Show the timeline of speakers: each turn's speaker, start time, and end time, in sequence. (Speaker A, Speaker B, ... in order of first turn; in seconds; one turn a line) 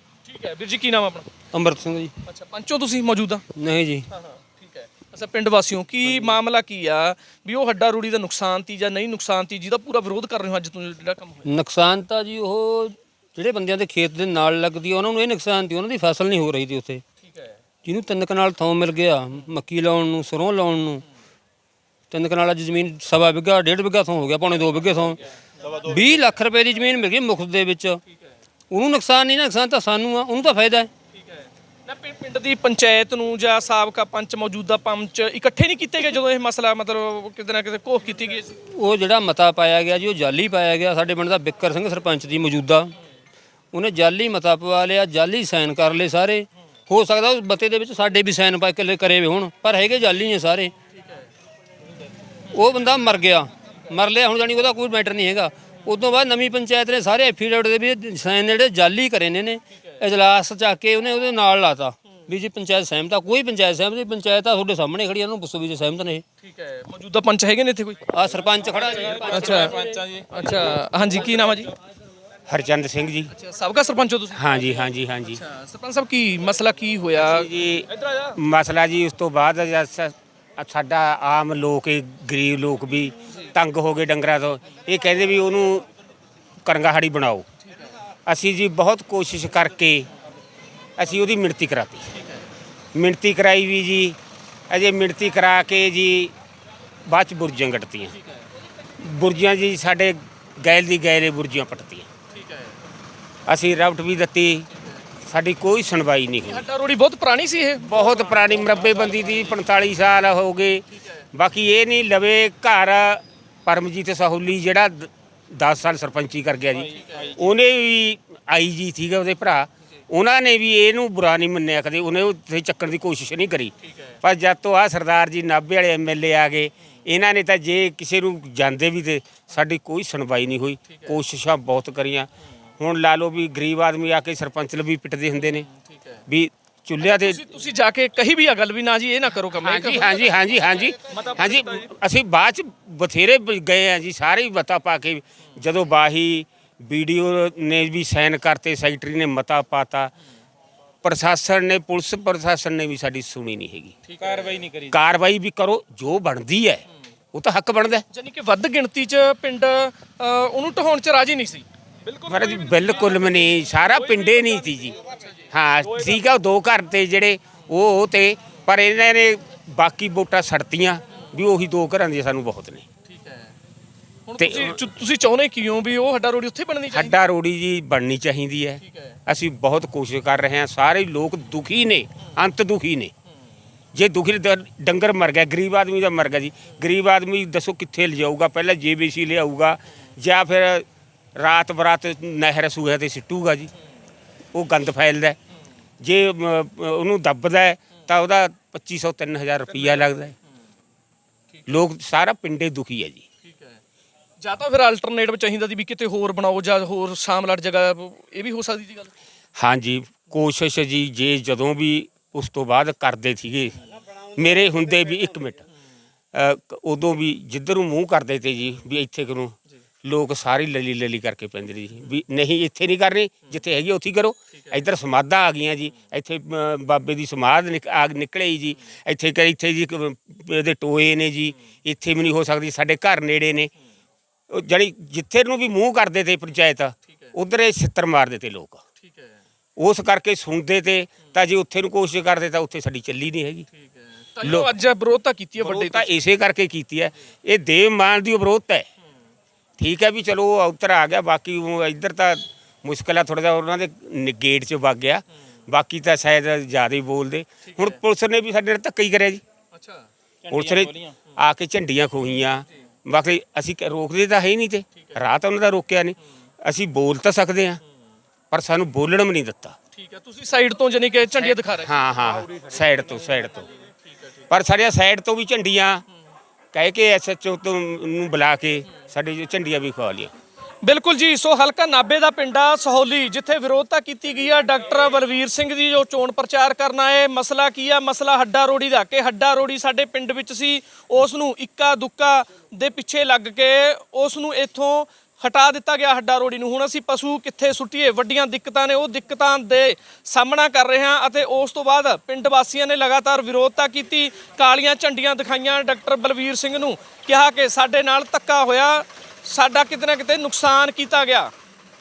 Speaker A: 0.2-1.3
Speaker B: 1.5-2.1
Speaker A: 2.3-3.4
Speaker B: 3.5-4.1
Speaker A: 4.1-11.4
Speaker B: 6.0-6.4
Speaker B: 11.4-17.0
Speaker B: 17.8-21.0
Speaker B: 22.1-25.2
Speaker B: 25.8-28.0
Speaker B: 28.7-30.9
Speaker A: 31.9-38.5
Speaker B: 38.7-42.9
Speaker B: 43.7-50.7
Speaker B: 52.5-66.2
Speaker A: 66.4-68.0
Speaker B: 68.1-70.0
Speaker A: 69.2-71.7
Speaker C: 72.5-73.3
Speaker A: 73.3-77.5
Speaker C: 74.3-75.4
Speaker C: 77.2-85.8
Speaker C: 86.6-87.4
Speaker C: 88.2-90.1
Speaker C: 91.0-92.1
Speaker C: 92.9-94.2
Speaker C: 94.7-96.3
Speaker C: 97.0-98.1
Speaker C: 99.0-102.1
Speaker A: 102.4-102.7
Speaker C: 103.5-104.6
Speaker C: 105.3-106.6
Speaker A: 106.5-108.7
Speaker C: 107.8-110.8
Speaker C: 111.3-123.7
Speaker A: 117.0-117.3
Speaker C: 124.2-132.3
Speaker C: 132.8-135.7
Speaker C: 136.3-137.5
Speaker A: 137.0-140.4
Speaker C: 139.6-150.1
Speaker A: 141.1-141.9
Speaker C: 151.0-154.0
Speaker A: 154.1-154.7
Speaker C: 154.9-156.8
Speaker C: 157.3-158.0
Speaker A: 158.1-165.2
Speaker C: 162.3-165.0
Speaker C: 165.5-172.8
Speaker A: 173.1-173.5
Speaker A: 174.3-177.2
Speaker C: 174.4-174.8
Speaker C: 176.9-183.1
Speaker A: 178.8-179.1
Speaker C: 183.9-190.8
Speaker C: 191.4-193.7
Speaker C: 194.5-195.4
Speaker C: 196.0-200.3
Speaker C: 201.7-203.2
Speaker A: 204.4-209.1
Speaker C: 209.6-213.8
Speaker C: 214.3-215.7
Speaker C: 216.3-233.7
Speaker C: 234.5-238.8
Speaker C: 239.8-243.7
Speaker A: 244.3-246.1
Speaker C: 244.4-244.7
Speaker C: 245.6-248.8
Speaker C: 249.8-259.4
Speaker C: 260.5-267.8
Speaker C: 268.5-269.8
Speaker A: 269.9-271.9
Speaker C: 271.3-273.7
Speaker C: 274.5-276.0
Speaker C: 276.7-280.3
Speaker A: 280.8-311.5